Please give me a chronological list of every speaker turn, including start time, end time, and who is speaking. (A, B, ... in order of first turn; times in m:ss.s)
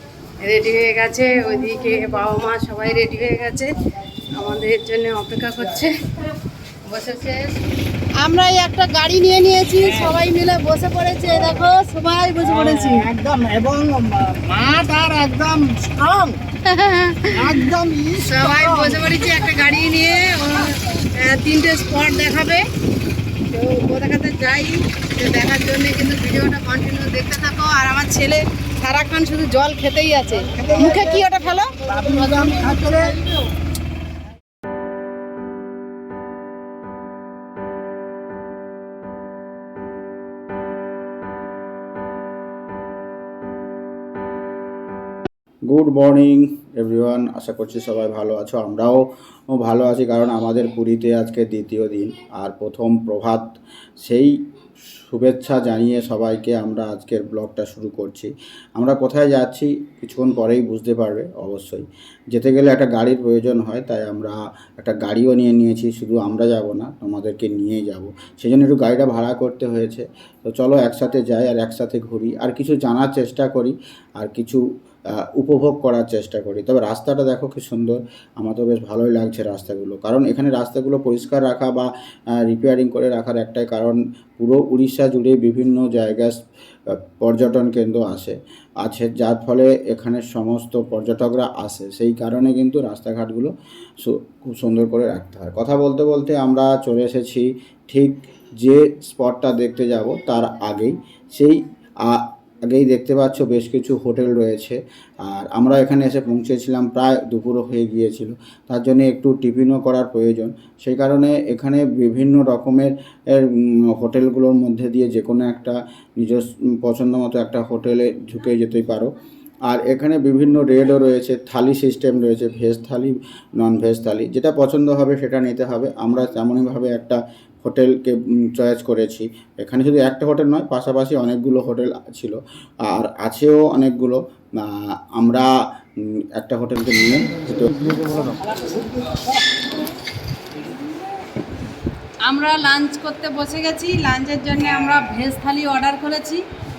0:00.4-0:03.7 A
0:04.3-0:06.0 A
0:06.8-0:07.6 A
0:08.2-0:13.1 A
0:12.4-0:16.4 B
0:16.6-0:22.6 A
0:17.3-0:19.1 B
0:23.4-0:33.2 A
0:30.6-0:31.1 B
0:31.9-0:33.4 B
0:45.7-0:54.4 C
0:55.0-1:14.6 C
1:15.2-1:26.4 C
1:26.9-1:59.1 C
1:59.7-2:15.5 C
2:16.4-2:18.4 C
2:18.5-2:19.2 B
2:22.3-2:26.4 A